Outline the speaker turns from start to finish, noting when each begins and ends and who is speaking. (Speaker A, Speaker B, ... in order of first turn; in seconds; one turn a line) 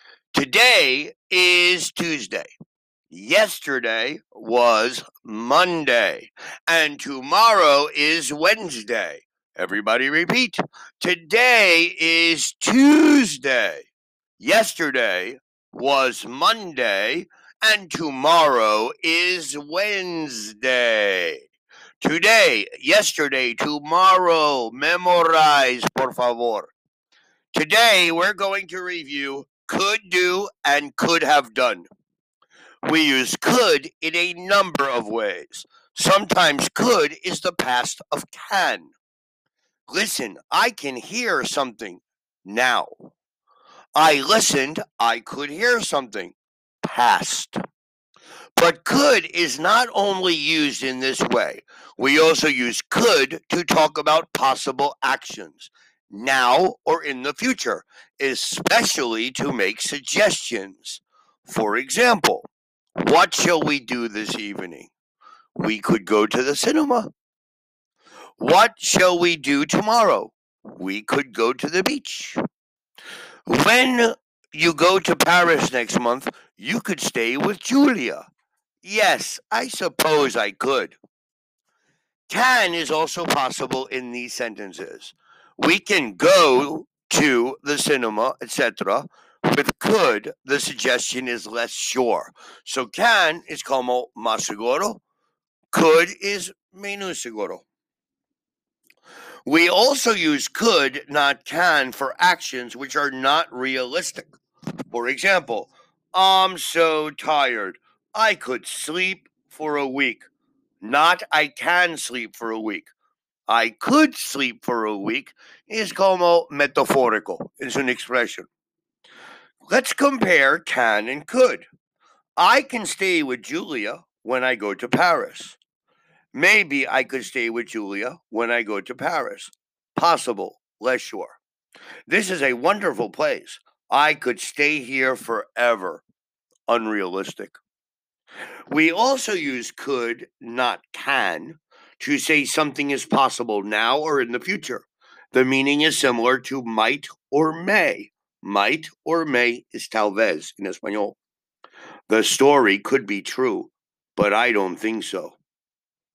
Speaker A: 0.3-2.5
Speaker A: 3.1-13.9
Speaker A: 14.4-21.5
Speaker A: 22.0-26.7
Speaker A: 27.5-31.9
Speaker A: 32.8-38.9
Speaker A: 39.9-43.1
Speaker A: 44.0-47.5
Speaker A: 48.6-62.5
Speaker A: 63.0-64.9
Speaker A: 65.5-67.1
Speaker A: 68.4-72.4
Speaker A: 73.5-78.2
Speaker A: 78.8-81.0
Speaker A: 82.3-95.0
Speaker A: 95.7-97.6
Speaker A: 99.5-104.4
Speaker A: 104.9-110.3
Speaker A: 110.8-112.9
Speaker A: 113.5-118.5
Speaker A: 119.7-121.7
Speaker A: 122.4-125.6
Speaker A: 126.3-131.4
Speaker A: 132.1-136.0
Speaker A: 136.7-137.6
Speaker A: 138.7-151.2
Speaker A: 152.1-155.4